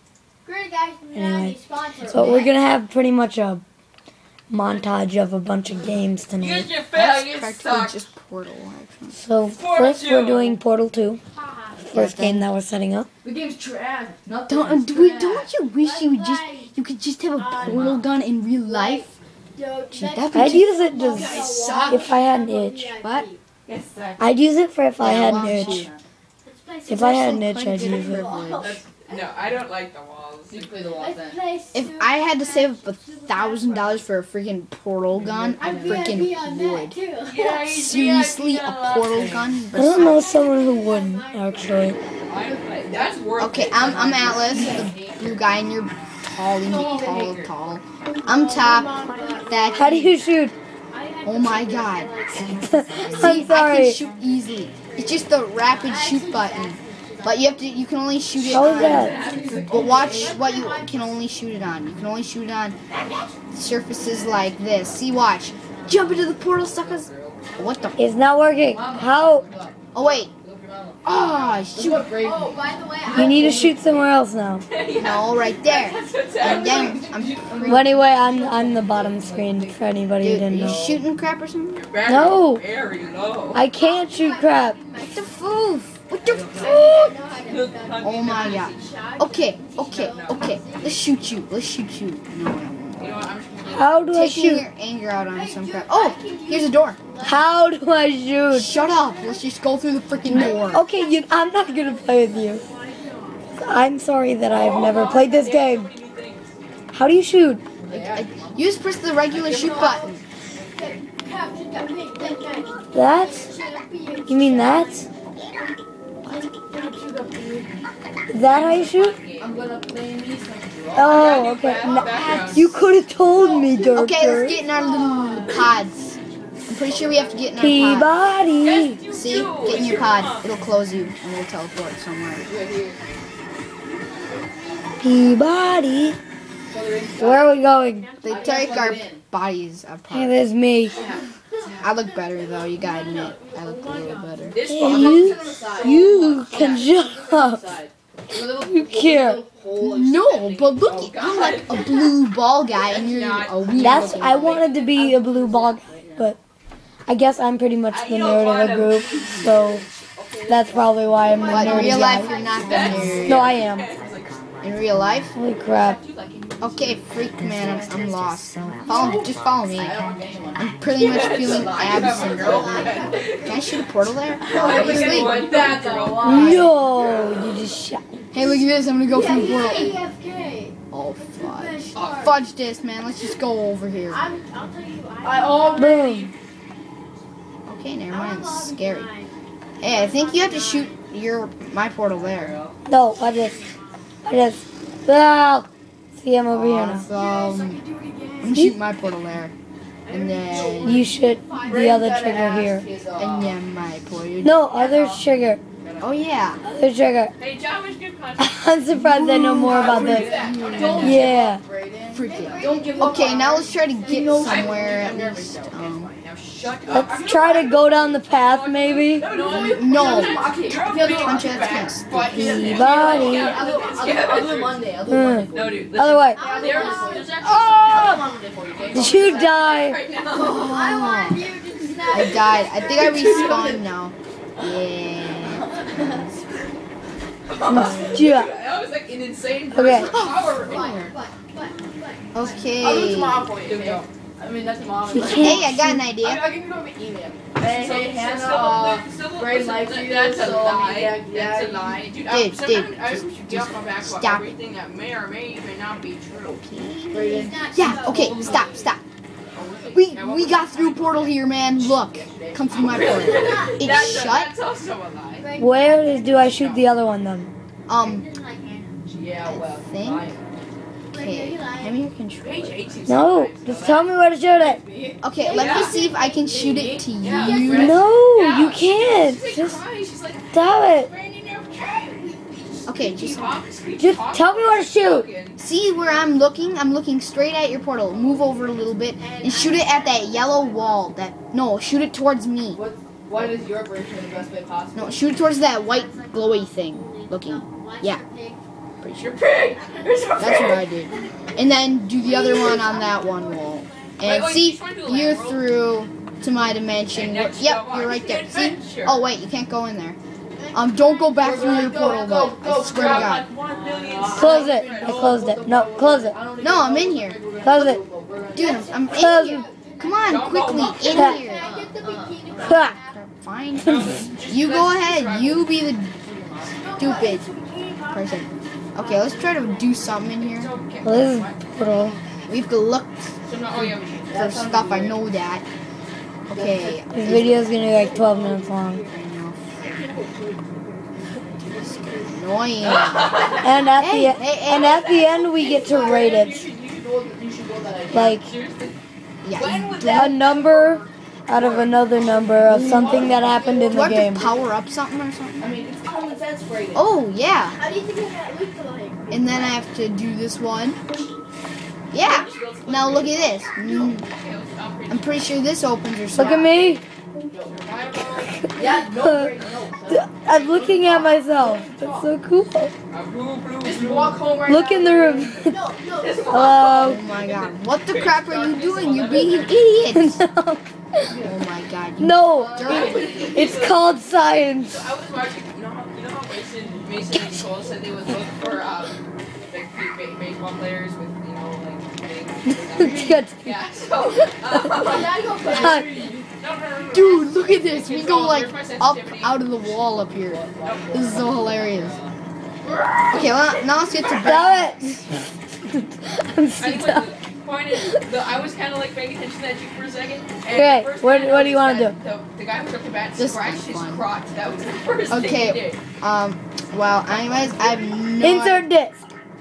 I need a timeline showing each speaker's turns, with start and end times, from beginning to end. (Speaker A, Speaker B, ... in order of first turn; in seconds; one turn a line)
Speaker A: 0.4-2.5
Speaker B: 1.1-3.6
Speaker B: 4.5-6.7
Speaker C: 6.4-8.0
Speaker D: 6.9-9.2
Speaker B: 9.1-11.2
Speaker C: 9.5-10.6
Speaker A: 11.3-11.9
Speaker B: 11.8-13.1
Speaker D: 11.9-12.4
Speaker E: 13.2-15.6
Speaker D: 14.5-19.1
Speaker A: 15.7-16.7
Speaker A: 17.4-18.1
Speaker C: 17.6-18.0
Speaker A: 18.6-23.4
Speaker D: 19.9-20.8
Speaker B: 20.3-22.9
Speaker E: 21.1-21.9
Speaker C: 21.1-22.0
Speaker D: 23.0-23.3
Speaker C: 23.6-24.4
Speaker B: 24.2-25.9
Speaker D: 25.0-25.9
Speaker A: 26.4-29.5
Speaker B: 26.9-28.3
Speaker D: 26.9-28.8
Speaker C: 28.6-30.9
Speaker E: 30.5-31.4
Speaker A: 30.9-34.0
Speaker D: 31.7-37.0
Speaker E: 35.2-36.2
Speaker A: 35.5-37.7
Speaker C: 37.2-39.5
Speaker D: 37.7-40.2
Speaker B: 39.7-42.0
Speaker A: 39.9-43.2
Speaker C: 42.2-45.0
Speaker D: 43.4-50.1
Speaker E: 43.8-45.5
Speaker A: 46.6-47.3
Speaker C: 47.2-47.5
Speaker A: 48.2-49.9
Speaker E: 49.1-49.4
Speaker B: 49.8-50.5
Speaker A: 50.9-53.4
Speaker D: 51.2-52.1
Speaker B: 52.3-54.0
Speaker D: 53.1-62.8
Speaker A: 54.9-57.8
Speaker C: 58.4-60.3
Speaker B: 58.5-59.1
Speaker E: 58.9-60.2
Speaker A: 60.2-61.3
Speaker C: 62.9-63.3
Speaker D: 63.5-68.0
Speaker A: 63.9-64.7
Speaker A: 65.5-66.4
Speaker C: 65.9-67.4
Speaker A: 67.5-68.2
Speaker E: 67.5-67.9
Speaker B: 68.0-69.5
Speaker E: 68.6-71.2
Speaker D: 69.9-70.3
Speaker D: 71.0-72.1
Speaker E: 71.7-74.1
Speaker A: 72.2-73.7
Speaker B: 73.1-74.7
Speaker C: 74.6-77.8
Speaker D: 74.9-77.9
Speaker E: 76.4-79.8
Speaker B: 77.6-80.8
Speaker D: 80.2-81.9
Speaker E: 80.5-81.0
Speaker C: 81.8-83.6
Speaker B: 82.0-82.6
Speaker B: 83.5-84.8
Speaker A: 83.7-85.5
Speaker D: 85.0-87.0
Speaker C: 86.5-88.8
Speaker A: 86.5-91.3
Speaker D: 88.0-93.2
Speaker C: 89.9-90.6
Speaker C: 93.0-94.0
Speaker B: 93.7-94.6
Speaker D: 94.1-97.0
Speaker A: 95.3-97.5
Speaker B: 97.2-98.7
Speaker D: 98.5-100.8
Speaker A: 98.6-99.5
Speaker B: 100.3-102.6
Speaker A: 100.3-103.6
Speaker B: 103.6-105.9
Speaker C: 104.5-106.6
Speaker B: 106.9-107.6
Speaker E: 107.9-108.6
Speaker D: 107.9-110.2
Speaker C: 109.3-110.2
Speaker A: 109.6-115.1
Speaker B: 112.9-113.5
Speaker B: 114.3-115.0
Speaker C: 116.7-117.7
Speaker B: 118.3-119.2
Speaker C: 118.4-119.6
Speaker E: 119.4-121.5
Speaker B: 120.9-124.6
Speaker C: 121.0-122.8
Speaker E: 122.1-122.5
Speaker A: 123.3-127.0
Speaker D: 123.9-128.1
Speaker E: 125.0-125.6
Speaker E: 126.8-127.9
Speaker B: 127.6-129.0
Speaker A: 128.3-128.9
Speaker C: 128.6-130.5
Speaker D: 129.1-132.5
Speaker E: 132.4-133.0
Speaker A: 133.8-135.8
Speaker B: 135.0-136.2
Speaker E: 136.7-137.5
Speaker B: 137.2-138.1
Speaker A: 138.0-139.0
Speaker D: 138.2-140.4
Speaker E: 138.2-139.2
Speaker B: 140.1-141.0
Speaker C: 140.9-141.9
Speaker A: 141.5-145.0
Speaker D: 141.8-144.6
Speaker C: 144.5-146.0
Speaker B: 144.7-147.6
Speaker E: 144.8-150.4
Speaker A: 145.6-146.4
Speaker B: 148.6-149.4
Speaker D: 149.8-154.6
Speaker C: 150.3-152.2
Speaker C: 152.8-155.2
Speaker B: 153.8-156.4
Speaker E: 154.2-156.3
Speaker B: 157.1-159.8
Speaker C: 157.9-161.9
Speaker E: 160.1-163.4
Speaker B: 160.5-162.3
Speaker D: 161.5-163.6
Speaker A: 162.1-163.3
Speaker C: 162.6-164.4
Speaker B: 163.3-163.9
Speaker D: 164.6-165.3
Speaker B: 165.3-166.0
Speaker C: 165.7-167.7
Speaker D: 166.6-170.0
Speaker E: 168.8-170.7
Speaker D: 170.5-175.5
Speaker C: 170.8-173.8
Speaker E: 171.4-173.2
Speaker A: 172.2-173.8
Speaker E: 174.4-176.7
Speaker C: 174.4-177.3
Speaker B: 176.2-178.2
Speaker D: 176.2-176.6
Speaker D: 178.3-180.0
Speaker A: 178.3-182.3
Speaker D: 180.9-184.2
Speaker C: 181.9-182.3
Speaker A: 184.1-186.0
Speaker E: 185.2-186.3
Speaker B: 185.8-186.3
Speaker D: 187.7-189.1
Speaker A: 188.1-191.1
Speaker D: 189.8-192.5
Speaker E: 192.1-192.8
Speaker B: 192.9-193.6
Speaker A: 192.9-194.0
Speaker B: 194.2-197.1
Speaker D: 196.5-197.8
Speaker A: 197.1-198.6
Speaker D: 198.4-199.5
Speaker B: 198.5-198.8
Speaker A: 200.1-202.5
Speaker D: 200.1-201.0
Speaker E: 200.2-201.0
Speaker B: 200.8-202.8
Speaker E: 201.6-203.6
Speaker D: 203.2-204.6
Speaker B: 204.4-205.6
Speaker E: 204.7-205.2
Speaker E: 205.8-206.3
Speaker D: 206.0-206.6
Speaker B: 206.6-207.3
Speaker C: 207.4-208.7
Speaker B: 208.4-210.3
Speaker D: 208.9-211.3
Speaker E: 209.3-215.6
Speaker C: 209.7-211.3
Speaker B: 211.0-211.6
Speaker D: 212.1-216.1
Speaker A: 212.2-214.8
Speaker C: 214.4-230.7
Speaker E: 216.7-218.1
Speaker B: 216.9-219.3
Speaker E: 219.2-229.5
Speaker D: 219.5-220.4
Speaker D: 221.0-222.3
Speaker B: 222.3-223.6
Speaker A: 223.1-224.1
Speaker B: 225.1-226.4
Speaker A: 226.3-227.6
Speaker B: 228.9-230.0
Speaker A: 230.3-233.7
Speaker D: 230.4-231.5
Speaker E: 231.9-232.4
Speaker D: 232.1-235.7
Speaker E: 232.9-233.8
Speaker E: 235.4-236.2
Speaker C: 236.3-236.7
Speaker C: 237.5-241.1
Speaker B: 237.7-238.5
Speaker B: 239.7-240.1
Speaker D: 240.1-240.5
Speaker E: 240.1-241.0
Speaker A: 240.4-242.9
Speaker D: 242.3-243.5
Speaker E: 242.8-252.1
Speaker C: 243.6-244.1
Speaker B: 245.1-246.0
Speaker D: 245.2-246.4
Speaker C: 247.6-256.6
Speaker D: 252.2-254.5
Speaker D: 256.6-259.0
Speaker E: 257.1-258.7
Speaker A: 257.2-258.8
Speaker C: 258.0-258.9
Speaker C: 259.5-261.6
Speaker D: 259.9-264.5
Speaker E: 261.8-263.4
Speaker C: 262.7-265.5
Speaker A: 263.1-263.9
Speaker A: 265.3-266.6
Speaker B: 265.6-267.5
Speaker C: 266.6-266.9
Speaker D: 267.9-268.2
Speaker A: 268.0-269.0
Speaker C: 269.1-270.4
Speaker D: 269.4-270.3
Speaker A: 271.1-272.0
Speaker D: 271.1-273.0
Speaker C: 272.4-274.1
Speaker B: 273.1-274.8
Speaker E: 274.5-275.9
Speaker A: 274.9-276.5
Speaker D: 275.2-278.0
Speaker C: 275.5-276.0
Speaker E: 276.4-277.4
Speaker C: 277.1-285.6
Speaker B: 277.7-279.8
Speaker B: 280.5-281.1
Speaker D: 282.9-283.6
Speaker B: 284.0-285.3
Speaker D: 285.6-292.8
Speaker A: 286.0-286.8
Speaker E: 288.1-288.7
Speaker C: 288.3-288.8
Speaker A: 289.1-291.1
Speaker E: 292.7-295.4
Speaker D: 294.9-298.2
Speaker A: 295.5-298.6
Speaker D: 299.0-299.3
Speaker C: 299.1-300.9
Speaker A: 299.8-300.3
Speaker D: 300.4-310.2
Speaker A: 301.1-301.6
Speaker A: 302.1-304.2
Speaker C: 304.2-305.8
Speaker C: 307.1-309.3
Speaker A: 310.5-313.2
Speaker D: 310.7-313.5
Speaker E: 311.4-318.8
Speaker C: 312.8-315.3
Speaker B: 314.3-316.4
Speaker D: 316.6-317.4
Speaker B: 317.6-318.0
Speaker D: 318.5-321.7
Speaker A: 318.5-323.2
Speaker B: 319.1-319.6
Speaker C: 320.2-321.2
Speaker B: 321.1-321.4
Speaker E: 321.2-322.9
Speaker B: 322.6-323.0
Speaker D: 322.9-326.2
Speaker C: 323.7-325.8
Speaker B: 323.9-324.2
Speaker E: 326.2-327.1
Speaker A: 326.8-330.4
Speaker D: 326.9-327.4
Speaker D: 328.1-330.7
Speaker C: 330.5-331.6
Speaker B: 331.0-332.2
Speaker D: 332.5-335.6
Speaker C: 333.4-334.4
Speaker E: 334.3-335.2
Speaker D: 336.5-337.6
Speaker E: 336.5-338.5
Speaker B: 337.1-339.0
Speaker A: 337.9-339.2
Speaker D: 339.1-339.8
Speaker E: 339.9-340.2
Speaker A: 340.2-342.4
Speaker D: 341.6-343.4
Speaker C: 342.8-343.8
Speaker A: 343.3-343.6
Speaker B: 343.6-346.7
Speaker D: 344.0-344.9
Speaker C: 344.7-346.6
Speaker E: 345.7-348.4
Speaker B: 348.1-348.5
Speaker C: 348.1-349.0
Speaker D: 349.4-350.3
Speaker C: 349.5-351.9
Speaker B: 350.1-354.5
Speaker E: 352.6-353.9
Speaker D: 353.9-355.7
Speaker E: 355.6-357.1
Speaker D: 356.9-357.8
Speaker A: 357.8-359.8
Speaker D: 359.3-361.0
Speaker D: 362.1-364.3
Speaker C: 362.1-365.4
Speaker D: 365.1-366.7
Speaker B: 366.3-367.0
Speaker E: 367.4-368.1
Speaker C: 367.7-368.7
Speaker B: 368.6-369.6
Speaker E: 368.7-372.3
Speaker B: 370.1-372.9
Speaker C: 373.1-374.5
Speaker E: 373.8-375.6
Speaker B: 374.6-375.8
Speaker A: 375.6-376.8
Speaker C: 376.1-380.0
Speaker B: 376.5-377.2
Speaker D: 377.0-380.4
Speaker B: 380.1-381.3
Speaker E: 381.2-381.6
Speaker D: 381.4-383.4
Speaker B: 382.2-385.1
Speaker E: 382.5-383.8
Speaker C: 382.8-384.1
Speaker C: 384.8-395.9
Speaker B: 392.9-393.8
Speaker E: 394.9-396.5
Speaker A: 395.0-396.3
Speaker B: 395.7-396.1
Speaker C: 396.5-399.7
Speaker D: 397.1-402.2
Speaker E: 399.8-402.3
Speaker C: 400.8-402.1
Speaker C: 402.9-404.5
Speaker D: 403.3-405.1
Speaker B: 404.4-407.3
Speaker C: 406.8-416.0
Speaker B: 410.7-412.1
Speaker D: 413.4-414.3
Speaker D: 415.3-418.9
Speaker C: 417.2-418.2
Speaker B: 418.4-419.2